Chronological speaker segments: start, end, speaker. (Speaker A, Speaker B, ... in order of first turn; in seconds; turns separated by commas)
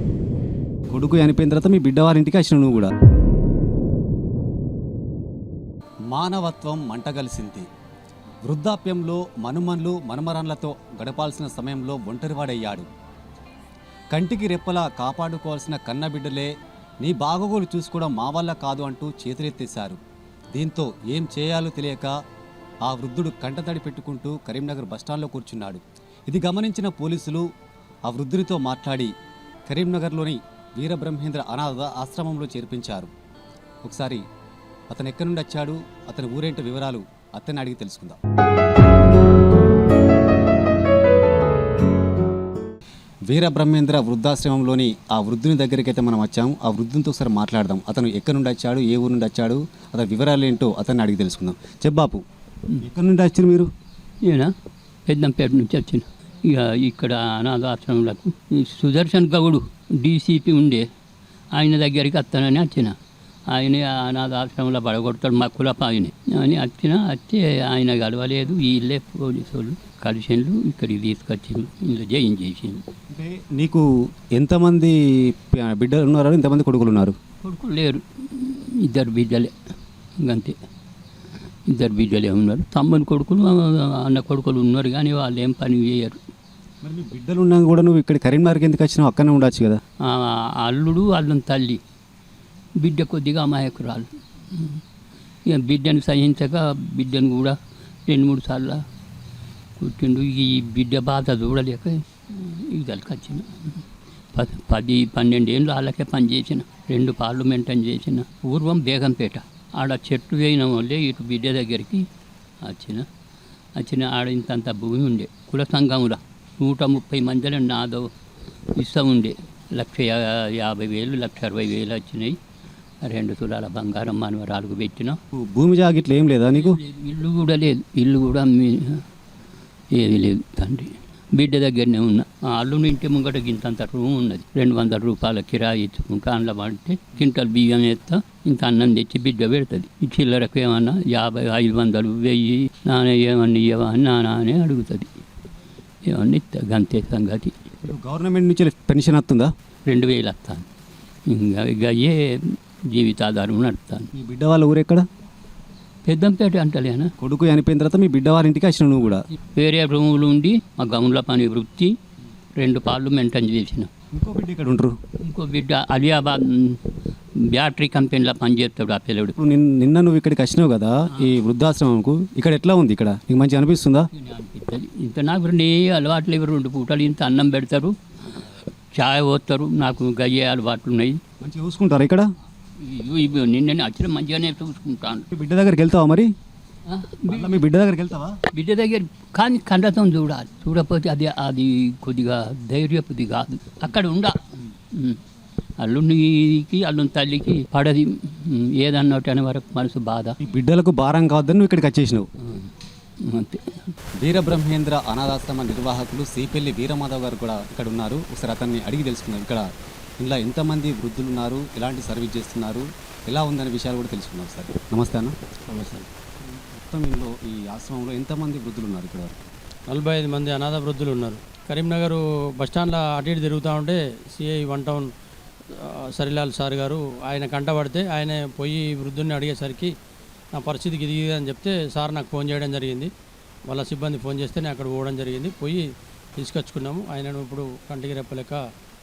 Speaker A: 0.9-2.9, Speaker A: 6.1-7.7, Speaker A: 8.4-12.9, Speaker A: 14.1-20.0, Speaker A: 20.5-22.1, Speaker A: 22.8-27.5, Speaker A: 28.1-29.1, Speaker A: 29.7-33.1, Speaker A: 33.8-34.2, Speaker A: 34.9-38.2, Speaker A: 43.3-52.2, Speaker A: 52.8-53.7, Speaker B: 54.2-54.5, Speaker B: 55.0-60.9, Speaker B: 61.5-63.0, Speaker B: 63.5-72.8, Speaker A: 73.1-77.1, Speaker B: 77.4-79.5, Speaker B: 80.2-80.6, Speaker B: 81.7-86.2, Speaker A: 86.8-89.8, Speaker B: 90.0-91.8, Speaker B: 92.8-94.8, Speaker B: 95.5-98.8, Speaker B: 99.8-112.1, Speaker B: 112.6-113.1, Speaker B: 113.8-118.1, Speaker B: 118.8-122.4, Speaker B: 123.0-125.2, Speaker A: 125.3-126.8, Speaker B: 126.5-129.0, Speaker B: 129.9-145.1, Speaker B: 146.0-147.5, Speaker A: 147.8-149.5, Speaker B: 149.9-150.7, Speaker B: 151.3-154.1, Speaker A: 154.1-155.0, Speaker B: 156.0-157.1, Speaker A: 157.2-159.2, Speaker B: 159.5-162.0, Speaker B: 162.6-163.9, Speaker A: 164.1-164.9, Speaker B: 165.2-169.3, Speaker A: 169.4-174.1, Speaker B: 174.1-181.2, Speaker A: 181.4-182.3, Speaker B: 182.8-185.3, Speaker A: 185.3-186.3, Speaker B: 186.8-187.6, Speaker A: 187.3-188.4, Speaker B: 188.5-195.2, Speaker B: 195.8-200.4, Speaker A: 200.4-202.3, Speaker B: 202.4-203.9, Speaker A: 204.2-209.7, Speaker A: 210.2-215.3, Speaker C: 215.7-216.1, Speaker A: 216.5-219.4, Speaker C: 219.9-225.1, Speaker C: 225.7-229.9, Speaker C: 230.5-233.1, Speaker C: 233.7-238.6